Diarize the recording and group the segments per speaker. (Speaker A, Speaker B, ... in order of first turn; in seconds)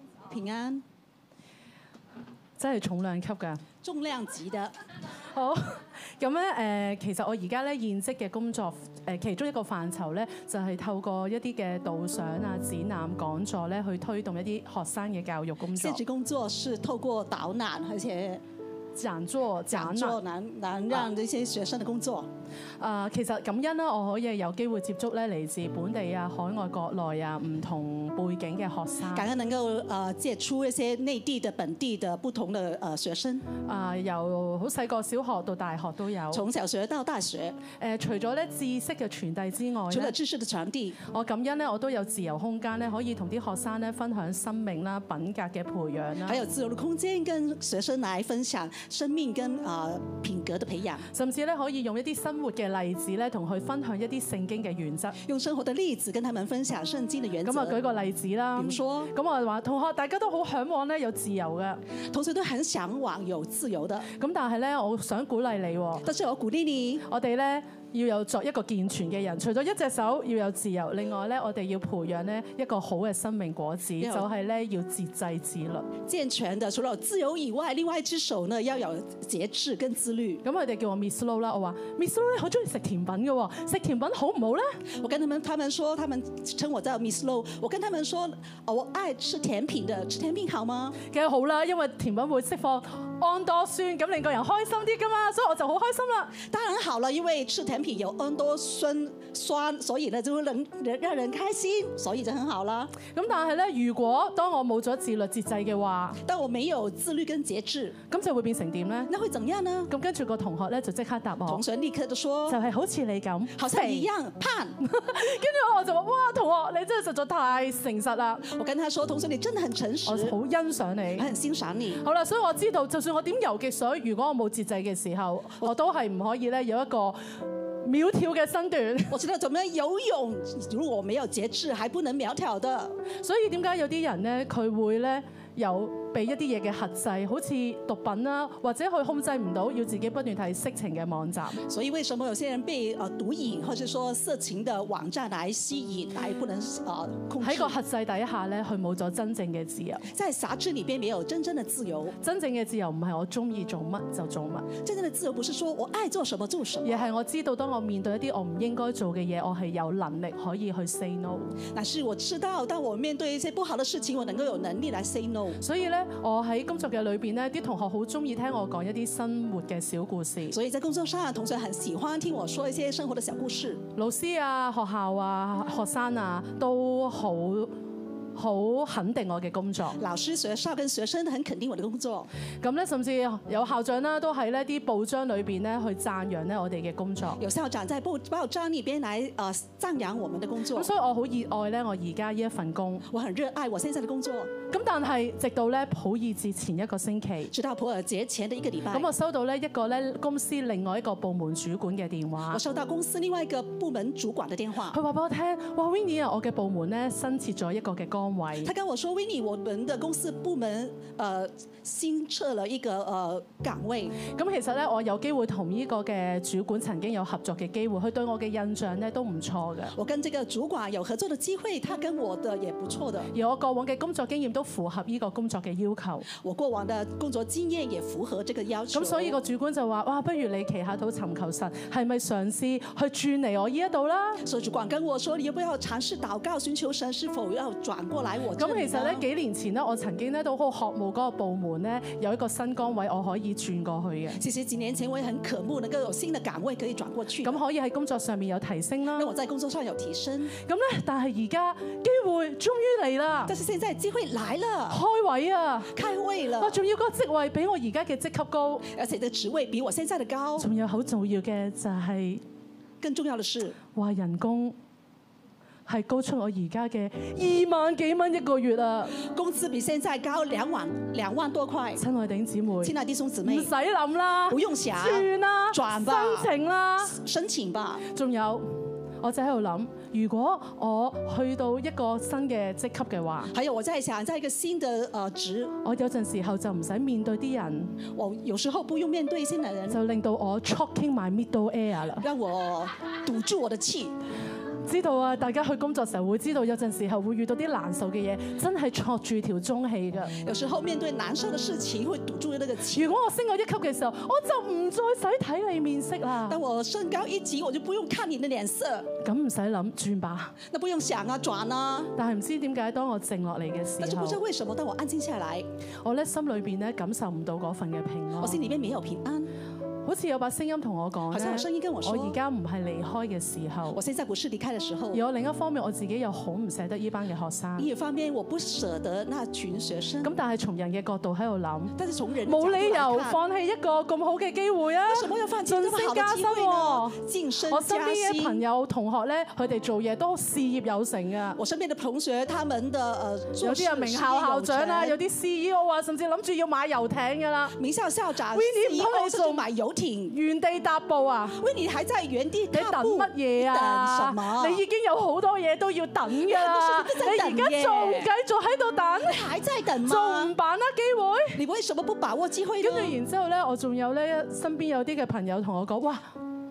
Speaker A: 0.2-0.8, 3.8-4.7, 15.7-18.4, 19.7-22.3, 29.1-33.5, 36.3-37.6, 39.9-41.0, 46.2-51.1, 55.2-57.8, 58.5-59.1, 62.1-64.1, 66.0-67.0, 74.0-74.3, 76.0-80.4, 84.9-91.0, 96.4-103.0, 106.2-108.0, 109.1-109.9, 111.4-112.6, 113.6-114.8, 118.5-120.3, 121.2-122.0, 129.1-133.0, 141.6-147.8, 150.1-152.2, 154.7-157.1, 161.7-165.6, 170.5-173.8, 180.0-182.3, 187.4-190.9, 193.1-194.5, 197.5-199.1, 202.5-205.0, 208.6-214.1, 219.9-223.3, 226.4-229.4, 234.4-239.2, 244.4-247.6, 249.1-250.5, 253.5-255.0, 255.9-256.8, 258.9-260.7, 263.0-263.8, 269.1-272.0, 272.8-273.7, 274.5-276.5, 277.1-278.1, 283.5-285.7, 288.1-290.0, 292.2-294.1, 300.4-303.1, 306.4-309.1, 310.7-312.1, 314.0-315.6, 318.4-319.5, 321.3-322.4, 323.9-325.2, 327.8-330.3, 331.9-333.4, 335.1-338.6, 341.6-345.2, 347.8-350.4, 351.6-354.8, 356.4-358.3, 359.2-360.5, 361.6-363.1
Speaker B: 2.6-3.6, 5.3-16.0, 18.9-20.2, 22.8-29.3, 33.6-36.4, 37.8-40.1, 41.1-46.4, 51.1-55.2, 57.4-61.8, 64.1-66.0, 67.0-75.9, 80.4-84.8, 91.0-96.3, 103.1-106.2, 108.1-109.1, 109.9-111.6, 112.5-114.1, 114.8-118.5, 120.0-121.3, 122.0-127.2, 127.8-129.2, 133.2-141.6, 147.4-150.1, 152.2-154.7, 156.8-161.5, 165.6-170.6, 173.9-177.7, 178.3-180.0, 182.6-187.4, 190.7-193.1, 194.7-197.5, 198.9-202.6, 204.9-208.7, 214.2-219.9, 223.3-226.3, 228.9-234.4, 238.6-244.4, 247.4-249.3, 250.6-253.5, 254.9-256.0, 256.6-258.9, 260.6-262.4, 263.9-264.7, 265.9-269.2, 271.9-272.9, 273.4-277.2, 278.1-278.6, 279.2-283.5, 285.8-288.0, 289.9-292.2, 294.8-300.3, 302.9-306.6, 309.2-310.6, 312.1-314.4, 316.0-318.6, 320.0-324.0, 325.1-327.9, 330.2-341.6, 343.6-347.8, 348.5-349.7, 350.3-351.6, 352.7-359.4, 360.0-361.6, 362.8-366.2